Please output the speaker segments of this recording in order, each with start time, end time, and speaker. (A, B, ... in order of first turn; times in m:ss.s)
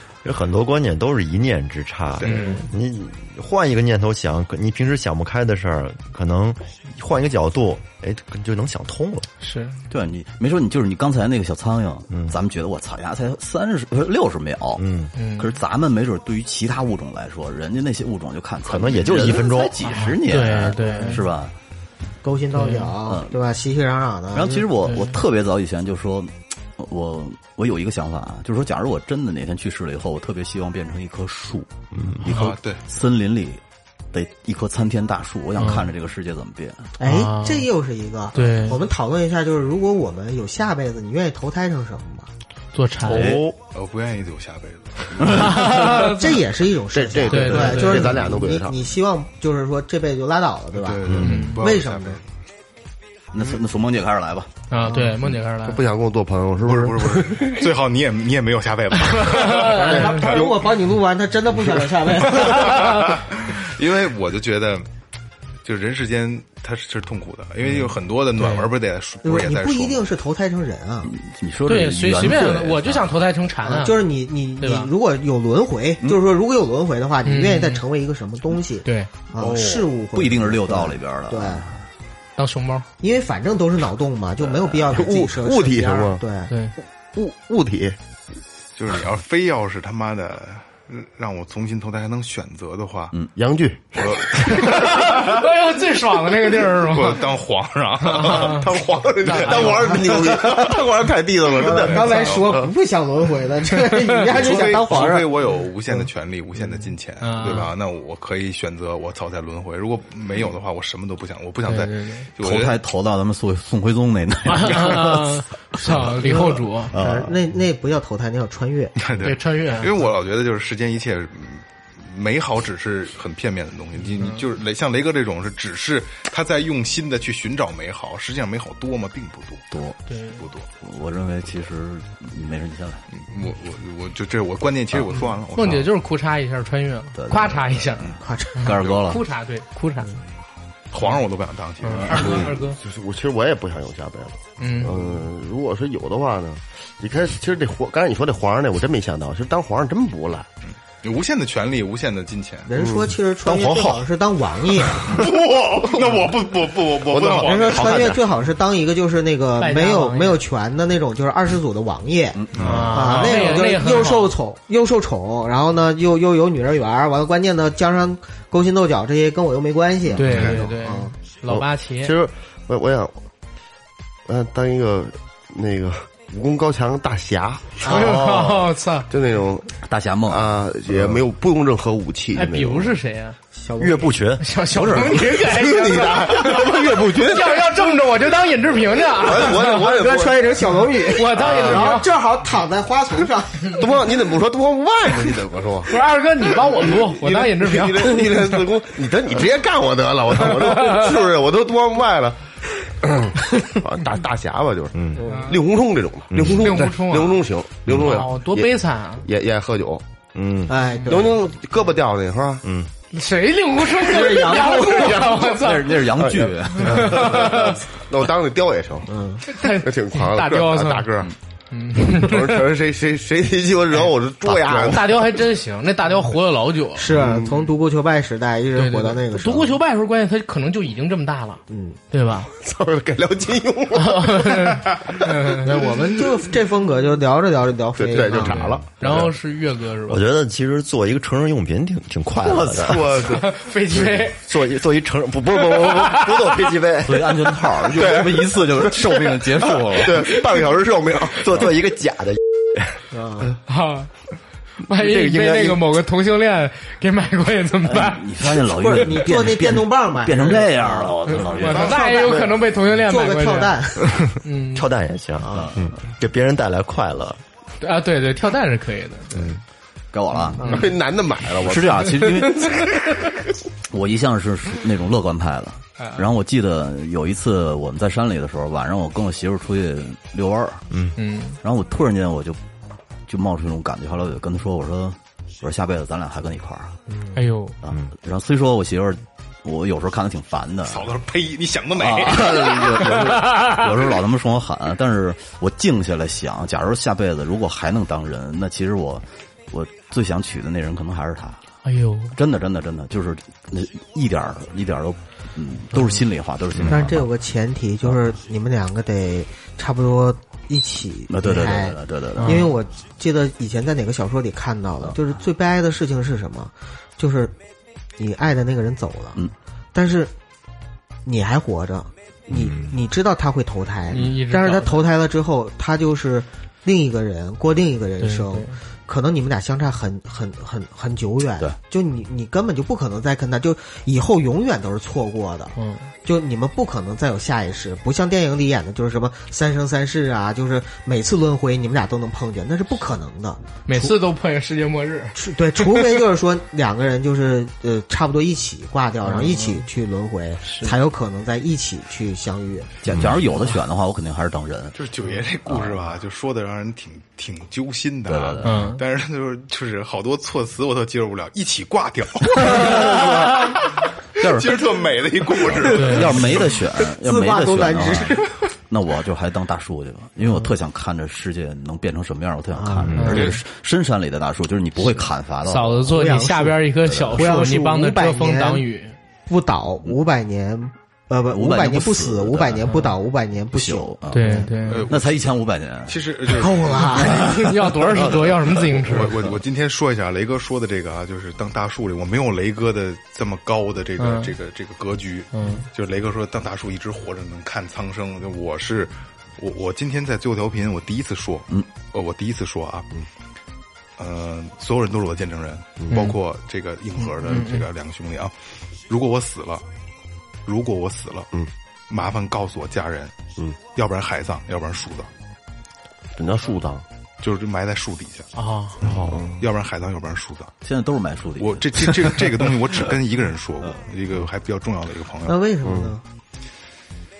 0:00.2-0:09.3 A
0:02.2-0:02.4 B
0:02.2-0:02.7 C
0:02.3-0:02.6 D
0:09.4-0:09.8 C
0:09.9-0:21.5 E
0:14.8-0:15.1 A
0:15.1-0:15.5 C
0:18.6-0:19.8 A
0:19.8-0:21.2 C
0:20.8-0:21.2 D
0:22.2-0:24.7 D
0:22.5-0:22.9 C
0:23.0-0:23.4 E
0:24.3-0:31.7 E
0:24.8-0:25.2 C
0:32.2-0:33.6 E
0:32.3-0:32.8 B
0:34.1-0:36.9 E
0:35.6-0:35.9 C
0:37.0-0:42.3 D
0:37.0-0:37.7 C
0:38.3-0:38.8 C
0:42.7-0:43.3 C
0:43.1-0:43.4 E
0:43.2-0:43.4 A
0:43.7-0:45.7 B
0:45.2-0:45.6 E
0:45.3-0:46.4 C
0:45.6-0:52.2 D
0:46.9-0:48.8 F
0:47.3-0:48.1 C
0:50.7-0:52.2 B
0:51.2-0:51.6 C
0:53.3-0:54.5 E
0:54.7-0:55.8 C
0:54.9-0:55.2 D
0:55.6-0:57.5 F
0:56.6-1:00.7 B
0:59.1-1:00.3 C
0:59.6-1:03.1 D
0:59.7-1:00.5 F
1:02.4-1:04.9 B
1:02.5-1:03.1 C
1:05.6-1:10.0 B
1:08.4-1:08.7 C
1:09.2-1:11.1 D
1:11.0-1:13.2 E
1:11.6-1:14.0 C
1:13.6-1:21.7 D
1:14.6-1:14.9 C
1:17.2-1:17.8 C
1:18.8-1:19.1 C
1:19.4-1:21.8 E
1:22.4-1:22.9 C
1:23.0-1:26.5 D
1:24.9-1:26.2 F
1:26.5-1:26.7 C
1:27.1-1:28.0 F
1:28.8-1:33.1 B
1:33.4-1:34.5 F
1:34.0-1:35.3 B
1:34.4-1:37.3 C
1:36.8-1:40.3 B
1:38.0-1:38.7 C
1:38.2-1:42.6 F
1:39.3-1:40.7 D
1:41.5-1:45.5 D
1:41.6-1:42.6 B
1:44.2-1:52.8 B
1:47.2-1:47.7 C
1:51.6-1:52.3 C
1:52.4-1:57.4 E
1:54.5-1:56.9 C
1:56.3-1:58.9 D
1:59.0-2:09.7 B
1:59.2-1:59.9 C
2:04.2-2:04.4 C
2:09.7-2:10.0 E
2:10.1-2:10.4 C
2:10.4-2:10.7 B
2:10.8-2:13.0 E
2:13.1-2:15.9 B
2:15.5-2:20.2 C
2:17.1-2:19.2 E
2:18.2-2:18.9 D
2:20.9-2:22.4 B
2:21.8-2:22.8 C
2:21.9-2:22.3 E
2:22.1-2:30.5 F
2:24.6-2:25.0 C
2:31.0-2:32.7 B
2:32.7-2:35.2 D
2:32.7-2:33.1 F
2:33.4-2:34.0 A
2:35.1-2:38.2 B
2:37.1-2:38.1 F
2:37.4-2:42.4 D
2:39.6-2:40.4 C
2:42.3-2:43.3 E
2:42.5-2:42.9 B
2:42.6-2:44.3 C
2:42.9-2:51.1 D
2:50.2-2:52.1 C
2:50.3-2:50.6 B
2:51.5-2:53.2 F
2:54.3-2:59.7 F
2:57.8-2:58.1 D
2:57.8-2:59.1 C
2:59.8-3:01.2 E
3:00.3-3:03.0 F
3:02.3-3:03.4 C
3:03.5-3:04.2 D
3:03.8-3:04.4 A
3:04.4-3:09.8 C
3:04.8-3:08.0 F
3:09.1-3:10.7 F
3:09.7-3:13.9 D
3:11.1-3:12.1 C
3:11.3-3:12.0 F
3:13.7-3:15.9 F
3:15.9-3:18.4 C
3:16.6-3:32.8 F
3:25.2-3:25.4 D
3:25.3-3:25.6 C
3:26.3-3:26.6 A
3:26.4-3:29.2 C
3:30.7-3:31.4 D
3:33.1-3:36.0 C
3:34.0-3:35.2 D
3:34.1-3:35.5 F
3:35.5-3:37.4 E
3:36.2-3:39.1 F
3:36.7-3:37.8 C
3:39.1-3:39.4 D
3:39.4-3:41.1 C
3:39.6-3:41.3 F
3:41.7-3:42.6 C
3:42.1-3:45.1 F
3:44.9-3:47.1 C
3:47.0-3:49.8 D
3:47.2-3:47.7 F
3:48.8-3:52.5 C
3:51.7-3:52.0 D
3:52.4-3:54.7 F
3:53.9-3:55.7 C
3:55.6-3:58.7 D
3:58.0-3:59.2 F
3:58.9-4:00.2 C
4:00.1-4:03.4 A
4:02.4-4:02.9 E
4:02.8-4:03.5 F
4:03.4-4:04.4 C
4:04.3-4:07.3 A
4:05.8-4:06.2 C
4:07.0-4:10.4 E
4:08.0-4:08.5 F
4:10.0-4:11.4 F
4:10.0-4:12.8 A
4:13.1-4:13.5 D
4:13.7-4:14.2 C
4:14.8-4:18.3 C
4:15.0-4:15.4 A
4:17.8-4:22.1 E
4:18.6-4:24.2 D
4:21.5-4:24.9 C
4:22.1-4:22.5 F
4:24.7-4:27.4 A
4:25.4-4:25.7 D
4:25.5-4:25.9 E
4:27.8-4:29.5 C
4:30.1-4:30.8 E
4:30.6-4:32.3 F
4:31.5-4:32.9 E
4:33.9-4:41.1 E
4:41.2-4:41.6 C
4:41.6-4:42.6 E
4:43.3-4:47.0 E
4:47.3-4:47.7 C
4:47.8-4:51.1 E
4:50.9-4:52.9 B
4:52.0-5:01.6 E
5:01.8-5:02.3 C
5:02.3-5:07.3 E
5:06.8-5:17.5 D
5:11.3-5:12.7 E
5:12.4-5:12.7 C
5:18.2-5:20.3 D
5:21.2-5:44.2 D
5:24.1-5:25.0 C
5:28.2-5:28.8 C
5:35.7-5:36.0 C
5:43.8-5:46.1 C
5:45.3-5:52.9 D
5:49.2-5:49.8 C
5:50.6-5:50.9 C
5:53.0-5:55.0 E
5:54.9-6:06.7 B
5:55.6-5:56.0 E
5:58.3-5:59.0 E
5:58.6-5:59.0 C
6:02.5-6:03.8 E
6:04.4-6:04.9 E
6:05.6-6:16.1 E
6:05.9-6:06.4 C
6:07.2-6:08.6 D
6:12.8-6:13.5 D
6:13.1-6:13.5 C
6:13.2-6:13.6 B
6:15.6-6:19.2 C
6:16.1-6:18.8 D
6:17.0-6:17.5 E
6:19.5-6:24.7 D
6:21.5-6:23.0 E
6:23.7-6:26.2 E
6:24.3-6:25.1 C
6:24.9-6:25.5 B
6:26.1-6:27.3 B
6:26.5-6:27.5 D
6:27.1-6:28.5 E
6:27.3-6:29.4 C
6:28.9-6:43.1 B
6:34.2-6:34.5 C
6:35.5-6:35.8 C
6:44.2-6:48.5 B
6:46.1-6:46.4 C
6:47.4-6:47.8 C
6:49.1-6:49.8 B
6:50.6-6:51.5 B
6:52.1-6:53.3 B
6:53.9-6:55.3 B
6:56.3-6:57.0 F
6:57.4-6:58.5 B
6:58.6-6:59.0 C
6:59.0-7:00.7 B
7:00.8-7:03.1 E
7:01.6-7:05.6 B
7:05.4-7:06.2 D